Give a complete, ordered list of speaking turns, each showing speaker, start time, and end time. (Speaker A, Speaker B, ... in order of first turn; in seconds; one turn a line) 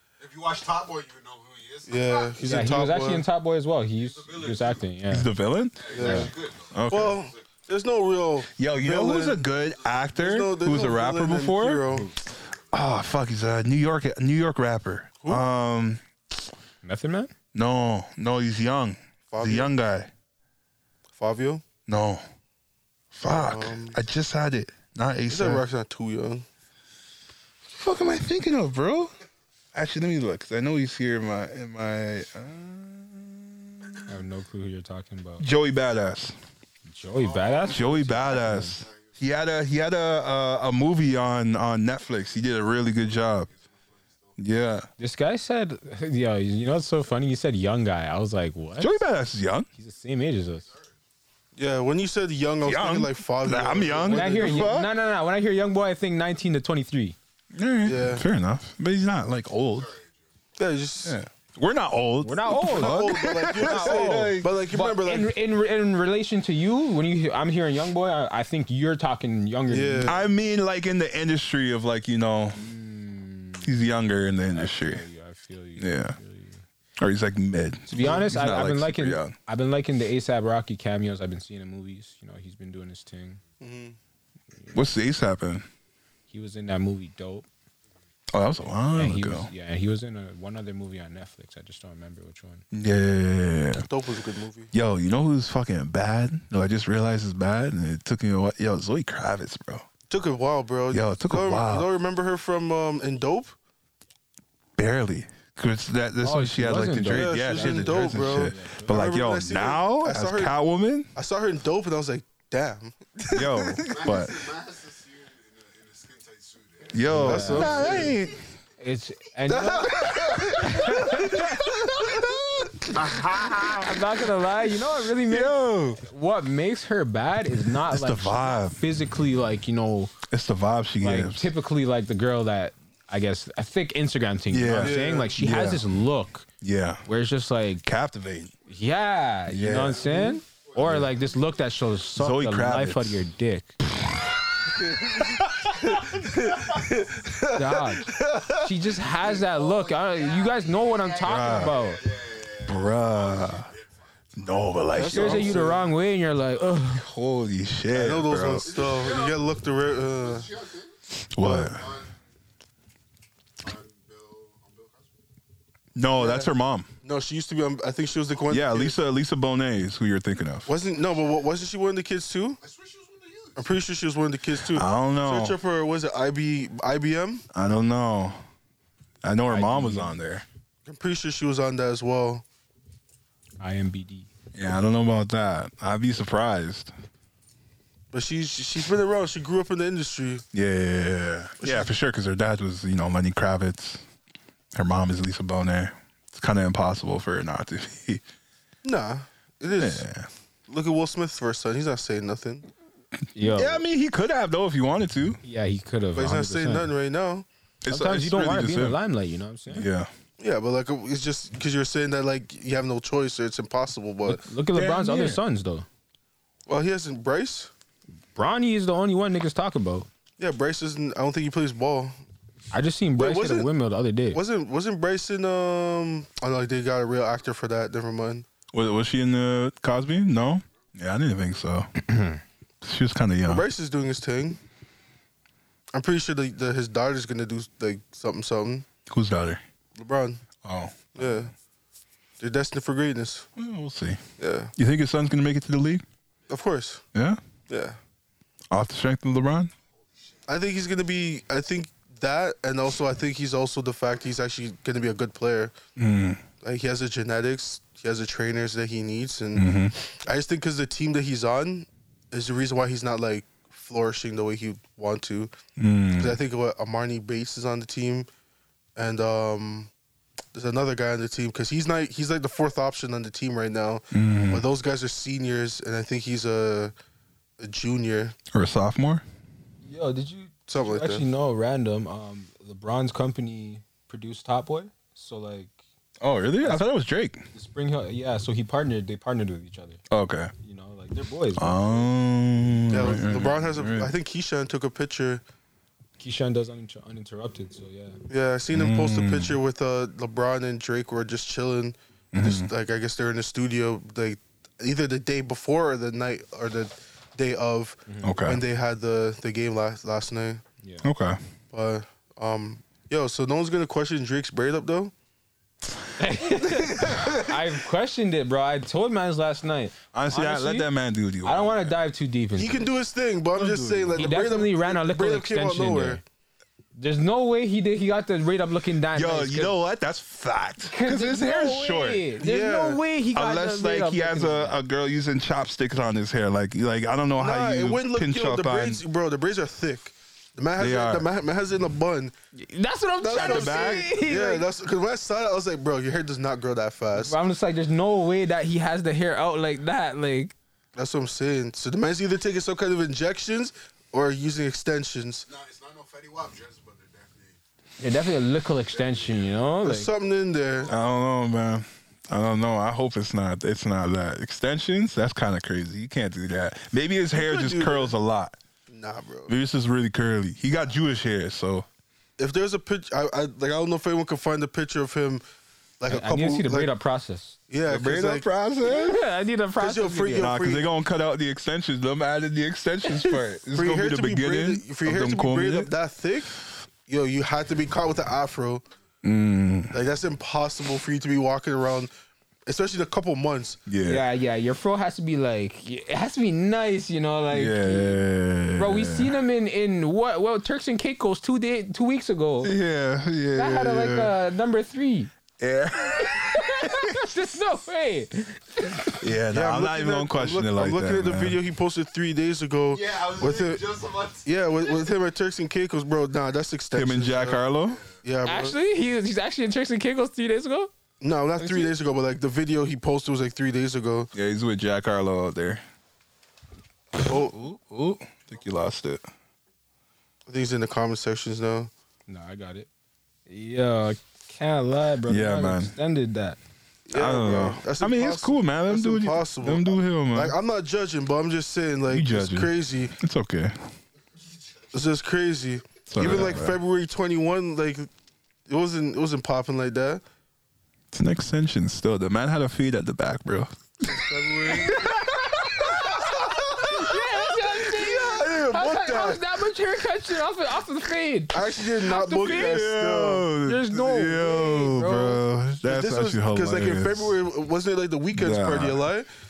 Speaker A: 0.2-2.6
Speaker B: 1.9-3.2
Speaker C: 2.4-5.3
Speaker A: 4.0-4.8
Speaker D: 5.1-6.2
Speaker A: 5.8-7.4
Speaker B: 5.9-6.3
Speaker C: 6.0-6.3
Speaker D: 6.7-7.2
Speaker B: 6.9-9.4
Speaker D: 8.5-11.9
Speaker A: 9.6-10.1
Speaker B: 10.1-12.1
Speaker A: 12.4-12.7
Speaker D: 12.7-16.0
Speaker C: 16.8-17.3
Speaker D: 17.5-20.1
Speaker B: 19.3-19.7
Speaker B: 21.1-21.6
Speaker D: 21.9-22.2
Speaker D: 23.1-25.6
Speaker B: 23.2-24.0
Speaker B: 25.3-26.4
Speaker D: 27.7-29.1
Speaker D: 29.7-34.1
Speaker C: 34.1-35.4
Speaker D: 35.4-36.3
Speaker C: 36.9-38.8
Speaker A: 37.1-39.3
Speaker D: 37.6-43.5
Speaker A: 43.0-44.4
Speaker D: 44.4-44.9
Speaker C: 45.0-48.9
Speaker D: 48.8-49.7
Speaker C: 49.8-50.7
Speaker A: 50.5-51.0
Speaker B: 51.5-54.7
Speaker D: 52.6-54.9
Speaker C: 54.1-57.1
Speaker D: 57.5-59.9
Speaker B: 57.8-58.2
Speaker A: 59.7-60.4
Speaker B: 60.6-61.2
Speaker D: 61.0-64.5
Speaker C: 62.2-70.2
Speaker B: 62.6-65.3
Speaker B: 69.7-70.2
Speaker D: 70.0-72.6
Speaker C: 72.5-73.7
Speaker D: 73.6-75.0
Speaker C: 74.5-76.6
Speaker D: 75.8-76.2
Speaker D: 77.0-79.3
Speaker C: 77.9-83.4
Speaker B: 83.6-84.0
Speaker D: 84.7-85.7
Speaker C: 86.3-87.5
Speaker D: 88.3-89.5
Speaker C: 88.9-92.6
Speaker D: 92.7-93.9
Speaker B: 93.8-94.7
Speaker D: 94.7-99.8
Speaker B: 100.1-103.5
Speaker D: 100.9-101.9
Speaker D: 104.8-111.1
Speaker C: 106.2-109.0
Speaker B: 107.1-110.5
Speaker B: 111.1-113.8
Speaker D: 113.3-114.5
Speaker A: 113.8-117.1
Speaker D: 116.9-118.4
Speaker B: 117.1-118.2
Speaker C: 117.1-117.8
Speaker A: 117.6-118.1
Speaker C: 118.8-121.6
Speaker B: 119.5-122.2
Speaker D: 121.4-123.9
Speaker C: 122.9-130.2
Speaker D: 125.3-126.0
Speaker D: 127.9-128.8
Speaker D: 130.3-131.5
Speaker C: 131.0-136.5
Speaker D: 134.5-135.8
Speaker B: 134.7-135.3
Speaker D: 136.6-137.0
Speaker C: 137.1-137.8
Speaker D: 137.8-138.5
Speaker C: 138.7-143.8
Speaker D: 139.5-141.1
Speaker A: 140.1-141.5
Speaker D: 142.2-143.3
Speaker B: 144.9-148.8
Speaker D: 145.4-145.7
Speaker C: 147.5-152.0
Speaker A: 149.2-154.9
Speaker D: 151.2-151.8
Speaker D: 152.7-153.7
Speaker D: 154.4-155.7
Speaker B: 154.9-155.9
Speaker C: 155.1-157.0
Speaker D: 156.9-158.8
Speaker B: 157.9-160.5
Speaker A: 158.6-159.5
Speaker A: 160.2-161.0
Speaker D: 161.3-161.9
Speaker B: 161.4-161.7
Speaker A: 161.6-162.2
Speaker A: 163.6-165.1
Speaker D: 165.9-166.9
Speaker B: 166.2-166.5
Speaker B: 167.0-169.0
Speaker D: 168.5-170.7
Speaker B: 170.7-172.6
Speaker A: 172.6-173.6
Speaker B: 173.6-177.4
Speaker D: 174.6-175.6
Speaker D: 177.5-178.4
Speaker D: 179.2-180.4
Speaker C: 179.5-180.2
Speaker B: 180.8-182.4
Speaker C: 183.6-184.3
Speaker D: 184.5-186.9
Speaker B: 188.1-190.4
Speaker D: 190.5-194.0
Speaker B: 191.6-191.9
Speaker D: 194.7-198.2
Speaker B: 198.8-200.0
Speaker D: 199.8-200.3
Speaker B: 200.7-202.7
Speaker C: 203.3-203.8
Speaker D: 203.4-205.4
Speaker C: 205.4-206.9
Speaker B: 206.1-207.4
Speaker D: 207.8-209.0
Speaker C: 207.9-209.8
Speaker D: 209.7-210.1
Speaker B: 210.4-214.5
Speaker C: 214.2-215.8
Speaker D: 214.7-215.4
Speaker B: 216.7-217.7
Speaker C: 218.3-220.1
Speaker B: 220.4-222.1
Speaker C: 222.7-224.4
Speaker B: 223.2-223.7
Speaker B: 224.3-228.4
Speaker D: 228.7-231.9
Speaker C: 232.0-232.4
Speaker D: 232.8-233.7
Speaker B: 233.5-234.6
Speaker B: 235.9-238.8
Speaker D: 239.1-239.6
Speaker B: 239.9-240.4
Speaker D: 240.6-241.2
Speaker B: 241.1-241.5
Speaker B: 242.4-243.5
Speaker D: 243.6-244.2
Speaker B: 244.4-244.7
Speaker D: 244.8-246.0
Speaker B: 246.5-247.0
Speaker D: 247.1-247.4
Speaker B: 247.7-248.0
Speaker D: 248.7-249.7
Speaker B: 250.5-255.7
Speaker D: 256.0-256.4
Speaker B: 256.6-265.5
Speaker D: 259.5-259.9
Speaker D: 265.8-266.4
Speaker B: 266.2-268.3
Speaker B: 268.9-269.9
Speaker B: 270.5-276.9
Speaker D: 274.1-274.6
Speaker B: 277.6-278.4
Speaker D: 278.5-279.2
Speaker C: 279.8-285.7
Speaker B: 280.7-281.2
Speaker D: 286.2-287.4
Speaker C: 286.6-286.9
Speaker C: 287.5-290.0
Speaker D: 290.1-290.5
Speaker C: 290.6-292.1
Speaker D: 291.6-294.1
Speaker B: 292.9-295.4
Speaker C: 296.2-298.2
Speaker B: 298.3-310.6
Speaker D: 298.7-299.6
Speaker D: 302.3-302.7
Speaker C: 308.1-308.3
Speaker D: 308.2-308.6
Speaker D: 311.0-311.4
Speaker B: 311.7-315.1
Speaker C: 316.2-320.9
Speaker B: 317.0-317.4
Speaker D: 320.1-321.9
Speaker C: 321.4-322.9
Speaker B: 322.6-326.2
Speaker D: 323.6-324.2
Speaker C: 323.6-326.2
Speaker C: 326.9-329.7
Speaker D: 329.1-332.2
Speaker C: 330.8-334.8
Speaker B: 332.4-333.0
Speaker D: 333.3-339.0
Speaker B: 337.4-342.3
Speaker D: 340.8-341.3
Speaker C: 342.5-344.6
Speaker B: 343.2-347.3
Speaker D: 343.3-344.1
Speaker C: 347.1-350.5
Speaker B: 350.9-355.4
Speaker A: 355.4-357.6
Speaker C: 358.0-360.1
Speaker A: 358.9-359.6
Speaker B: 359.8-360.9
Speaker A: 360.8-361.1
Speaker D: 360.9-368.6
Speaker B: 367.3-368.1
Speaker B: 368.9-369.5
Speaker D: 369.5-371.9
Speaker B: 372.4-375.4
Speaker B: 376.0-376.9
Speaker C: 376.1-377.6
Speaker B: 377.7-378.4
Speaker D: 377.9-379.2
Speaker C: 378.8-380.5
Speaker B: 379.8-380.9
Speaker D: 380.4-385.9
Speaker B: 383.7-388.8
Speaker D: 389.2-390.0
Speaker B: 389.9-392.1
Speaker B: 392.6-393.8
Speaker D: 393.9-394.2
Speaker C: 394.0-398.2
Speaker D: 397.5-399.4
Speaker C: 398.8-402.8
Speaker D: 402.6-404.3
Speaker C: 403.5-405.3
Speaker D: 405.6-407.2
Speaker C: 406.0-409.2
Speaker D: 409.2-411.6
Speaker B: 409.5-413.9
Speaker A: 412.9-415.1
Speaker B: 414.4-417.6
Speaker D: 416.9-418.0
Speaker A: 417.9-418.2
Speaker B: 418.2-418.7
Speaker C: 418.4-420.9
Speaker B: 421.2-424.3
Speaker C: 421.6-421.9
Speaker D: 424.3-425.8
Speaker D: 427.1-429.2
Speaker B: 427.2-427.5
Speaker B: 430.5-431.9
Speaker C: 432.3-432.9
Speaker C: 433.5-436.6
Speaker D: 435.3-435.9
Speaker B: 437.1-443.1
Speaker D: 437.1-440.5
Speaker D: 442.1-443.8
Speaker B: 444.9-448.1
Speaker D: 446.1-446.8
Speaker B: 448.7-450.2
Speaker D: 451.1-453.8
Speaker B: 454.1-455.2
Speaker D: 454.7-456.2
Speaker C: 455.7-462.8
Speaker B: 457.8-459.4
Speaker B: 461.5-463.5
Speaker D: 462.4-467.3
Speaker C: 463.6-465.4
Speaker B: 465.8-469.3
Speaker D: 468.3-469.0